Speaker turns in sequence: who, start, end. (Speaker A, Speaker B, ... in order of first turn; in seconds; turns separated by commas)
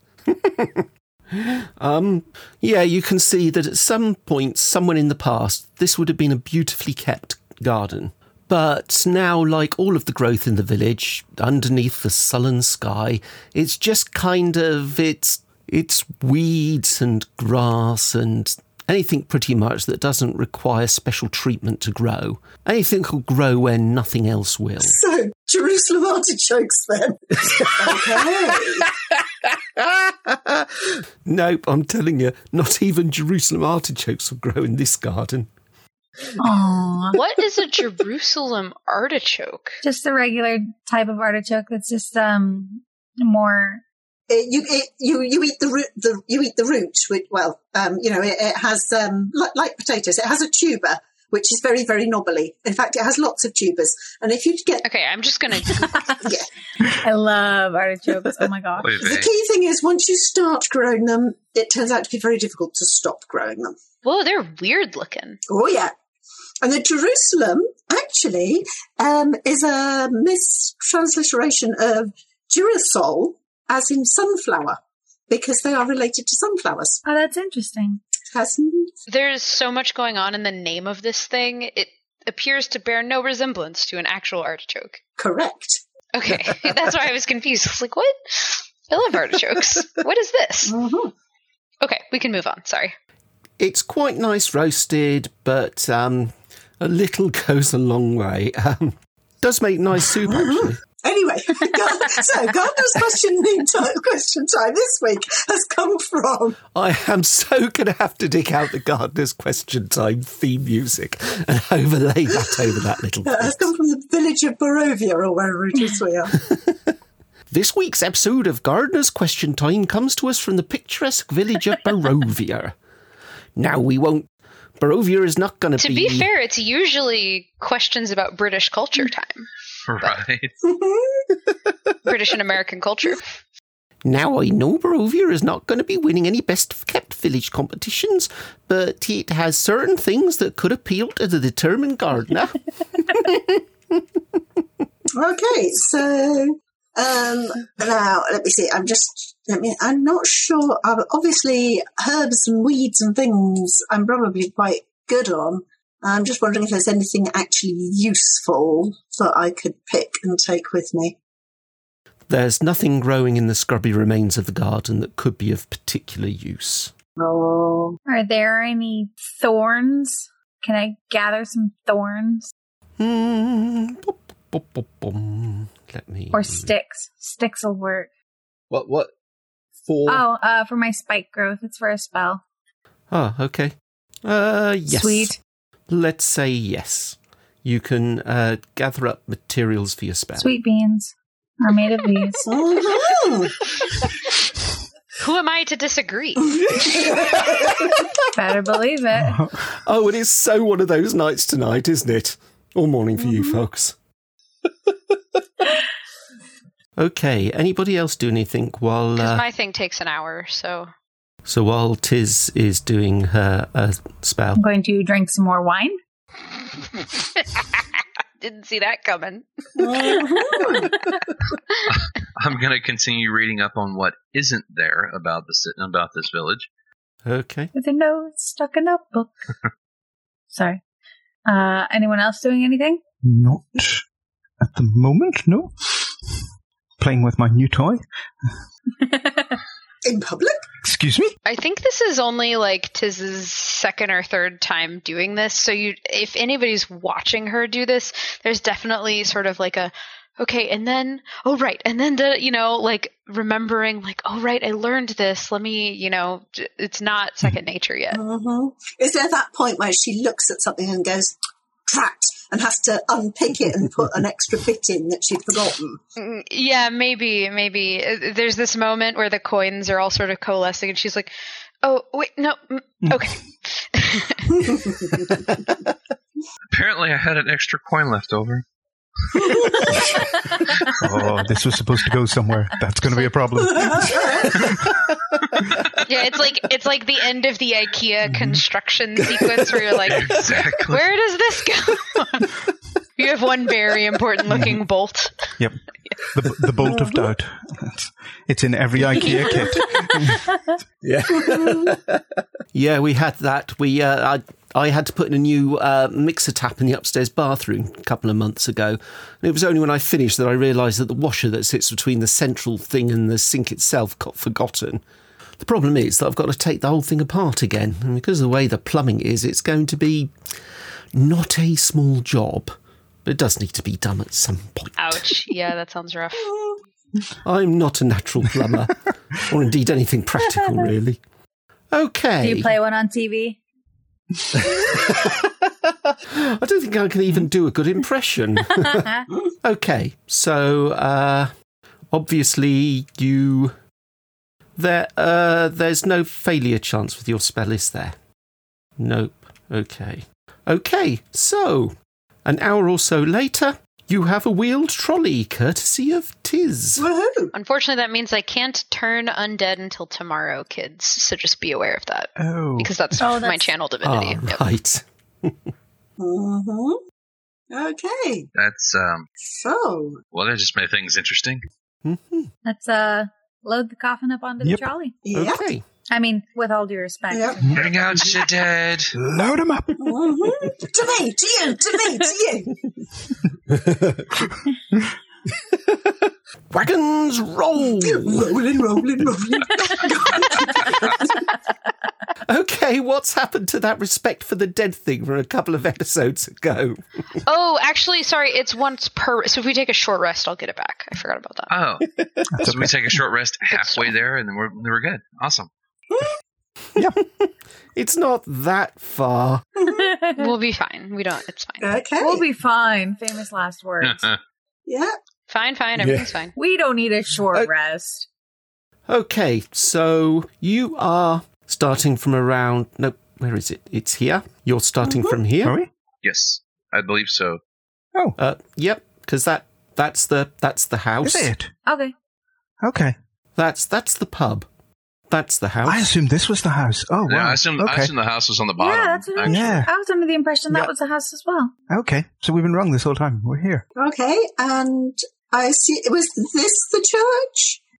Speaker A: 0.3-25.0, Speaker B: 24.8-28.9, Speaker A: 27.5-28.9, Speaker A: 29.4-35.5, Speaker C: 36.4-37.2, Speaker D: 37.1-39.8, Speaker C: 39.8-43.8, Speaker B: 44.3-54.9, Speaker D: 54.8-56.1, Speaker C: 55.9-56.2, Speaker B: 56.2-56.5, Speaker C: 56.9-59.0, Speaker E: 58.8-59.3, Speaker B: 59.0-63.8, Speaker D: 64.0-65.4, Speaker B: 65.5-65.9, Speaker B: 66.6-77.0, Speaker C: 77.0-78.0, Speaker B: 78.3-79.0, Speaker D: 79.1-85.0, Speaker B: 85.2-85.8, Speaker D: 86.1-90.8, Speaker B: 90.7-91.1, Speaker D: 91.8-92.9, Speaker A: 93.6-100.8, Speaker B: 100.3-106.6, Speaker A: 106.7-113.7, Speaker B: 113.2-116.4, Speaker A: 116.5-116.8, Speaker A: 117.5-122.8, Speaker A: 123.6-126.3, Speaker D: 125.8-130.2, Speaker E: 129.9-130.5, Speaker B: 130.6-131.4, Speaker D: 132.1-133.2, Speaker A: 134.0-144.2, Speaker B: 145.1-161.2, Speaker A: 162.3-166.9, Speaker B: 167.2-168.0, Speaker C: 168.1-172.5, Speaker A: 173.0-176.7, Speaker C: 176.3-178.1, Speaker A: 178.7-179.1, Speaker A: 179.8-180.2, Speaker C: 180.1-182.4, Speaker A: 183.1-185.3, Speaker C: 184.9-185.4, Speaker A: 185.9-190.5, Speaker C: 190.4-192.5, Speaker B: 192.4-193.7, Speaker D: 195.2-196.6, Speaker B: 196.6-198.0, Speaker C: 198.3-199.4, Speaker F: 199.3-199.6, Speaker A: 199.8-204.0, Speaker A: 207.0-209.4, Speaker D: 209.2-210.9, Speaker A: 211.4-214.6, Speaker C: 214.6-216.0, Speaker D: 217.6-217.8, Speaker D: 218.4-220.0, Speaker B: 219.8-220.9, Speaker E: 221.9-226.7, Speaker A: 227.2-227.7, Speaker C: 227.7-229.3, Speaker C: 230.5-230.8, Speaker C: 231.5-233.0, Speaker F: 233.2-234.0, Speaker F: 234.6-236.2, Speaker F: 237.0-238.0, Speaker C: 239.0-239.6, Speaker B: 240.0-240.7, Speaker F: 240.8-241.3, Speaker D: 241.4-258.2, Speaker B: 258.1-261.4, Speaker B: 261.9-266.0, Speaker D: 266.2-274.9, Speaker B: 274.8-275.1, Speaker E: 276.7-278.6, Speaker B: 279.4-279.8, Speaker F: 280.9-284.8, Speaker B: 283.8-284.7, Speaker D: 286.0-292.6, Speaker F: 288.3-288.6, Speaker E: 290.1-291.0, Speaker D: 293.2-295.3, Speaker F: 296.3-300.5, Speaker A: 301.0-302.2, Speaker A: 302.7-315.0, Speaker A: 315.6-320.3, Speaker A: 321.1-325.3, Speaker D: 325.0-326.5, Speaker B: 326.4-326.8, Speaker A: 327.4-331.2, Speaker A: 331.9-332.8, Speaker C: 332.4-333.6, Speaker A: 334.7-335.6, Speaker A: 336.3-339.1, Speaker C: 338.8-339.3, Speaker A: 339.6-341.5, Speaker A: 342.1-343.8, Speaker A: 344.8-348.2, Speaker A: 349.0-357.1, Speaker B: 357.0-357.5, Speaker D: 357.5-364.6, Speaker F: 362.4-362.9, Speaker C: 363.2-363.7, Speaker A: 364.0-365.7, Speaker B: 366.2-367.0, Speaker B: 367.7-368.5, Speaker E: 368.6-369.3, Speaker B: 369.4-370.2, Speaker E: 370.3-371.6, Speaker A: 372.0-372.5, Speaker C: 372.6-375.2, Speaker B: 375.2-375.6, Speaker A: 375.3-375.8, Speaker C: 376.1-377.8, Speaker B: 377.3-378.3, Speaker E: 377.7-379.1, Speaker F: 379.1-380.2, Speaker B: 380.0-382.9, Speaker A: 383.9-384.2, Speaker A: 385.9-386.1, Speaker A: 386.7-388.5, Speaker B: 388.0-391.4, Speaker A: 392.4-397.0, Speaker D: 397.5-401.7, Speaker E: 401.7-405.7, Speaker F: 402.5-403.2, Speaker D: 403.7-404.2, Speaker B: 406.1-406.4, Speaker A: 407.0-409.6, Speaker B: 409.8-410.1, Speaker C: 409.9-410.5, Speaker D: 410.4-411.9, Speaker B: 411.8-412.5, Speaker C: 412.2-414.3, Speaker E: 414.0-414.4, Speaker B: 414.9-415.1, Speaker D: 415.5-416.5, Speaker A: 416.0-416.3, Speaker C: 416.6-418.3, Speaker A: 419.1-425.8, Speaker B: 425.0-425.4, Speaker F: 425.6-425.9, Speaker E: 426.2-427.6, Speaker A: 428.4-431.5, Speaker F: 431.2-431.7, Speaker C: 431.9-432.1, Speaker F: 432.8-433.1, Speaker A: 433.6-434.7, Speaker A: 435.3-436.1, Speaker F: 435.9-438.1, Speaker E: 437.3-439.9, Speaker C: 438.8-441.7, Speaker F: 439.4-439.9, Speaker F: 441.9-443.9, Speaker B: 444.0-447.8